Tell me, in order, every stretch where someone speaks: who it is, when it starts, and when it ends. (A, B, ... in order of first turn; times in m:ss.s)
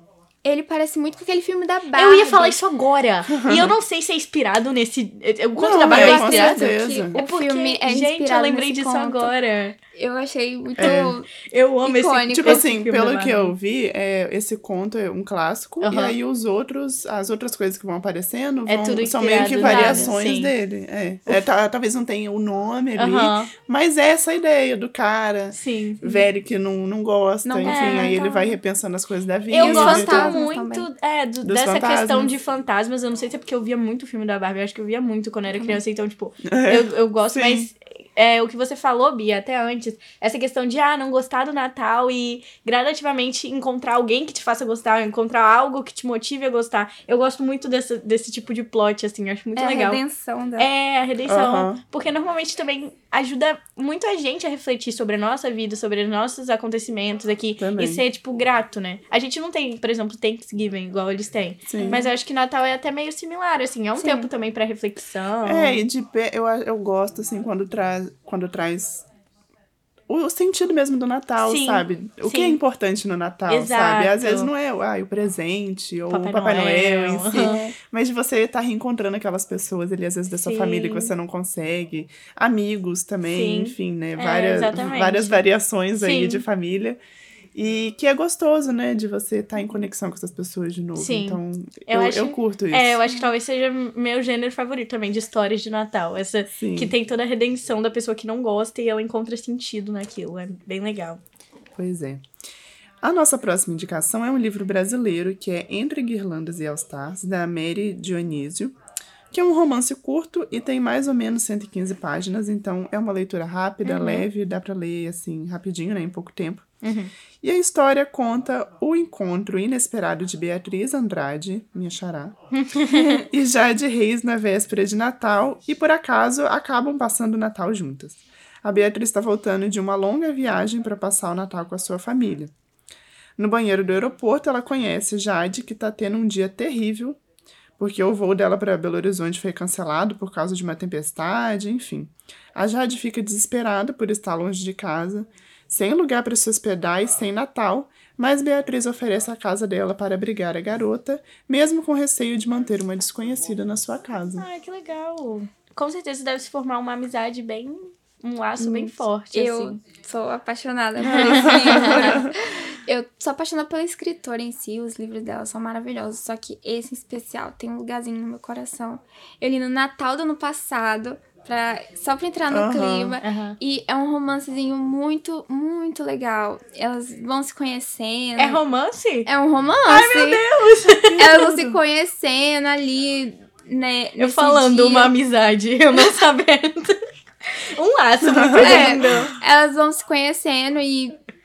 0:00.4-0:02.6 A
0:01.9-0:09.8 B
0:03.4-0:03.6 C
0:05.6-0:07.2 C
0:05.7-0:09.3 A
0:09.9-0:12.6 A
0:10.8-0:11.1 C
0:10.8-0:13.5 B
0:12.3-0:30.4 C
0:15.8-0:16.2 B
0:18.6-0:20.5 B
0:19.3-0:20.1 A
0:23.0-0:23.5 B
0:25.5-0:26.2 B
0:27.4-0:28.6 A
0:27.6-0:28.1 B
0:29.5-0:30.9 A
0:29.5-0:50.0 B
0:31.4-0:32.3 C
0:35.5-0:35.8 A
0:36.4-0:37.7 C
0:49.6-0:50.7 A
0:50.6-1:05.8 B
0:51.3-0:51.8 C
0:57.6-0:58.0 C
1:01.7-1:02.0 C
1:04.0-1:04.3 A
1:05.4-1:09.0 C
1:10.1-1:27.0 C
1:11.4-1:12.6 B
1:13.5-1:14.5 B
1:16.1-1:17.6 B
1:17.3-1:17.7 A
1:20.4-1:21.1 B
1:23.3-1:25.4 B
1:26.0-1:26.4 B
1:27.5-1:33.0 C
1:31.0-1:41.2 B
1:36.5-1:36.9 C
1:41.8-1:42.2 C
1:43.0-1:48.7 C
1:49.3-1:56.7 C
1:53.8-1:54.3 B
1:56.8-1:57.1 B
1:57.4-2:02.4 C
2:02.5-2:03.2 B
2:02.9-2:12.5 C
2:13.4-2:17.2 C
2:17.8-2:34.5 C
2:34.4-2:39.8 B
2:38.6-2:58.6 A
2:41.0-2:42.2 B
2:41.1-2:42.3 C
2:52.5-2:53.2 C
2:53.2-2:53.6 B
2:58.4-2:59.3 B
2:59.2-3:00.4 A
2:59.8-3:01.3 B
3:01.0-3:01.8 C
3:01.2-3:05.2 A
3:04.2-3:09.3 B
3:08.2-3:09.0 C
3:08.6-3:11.2 A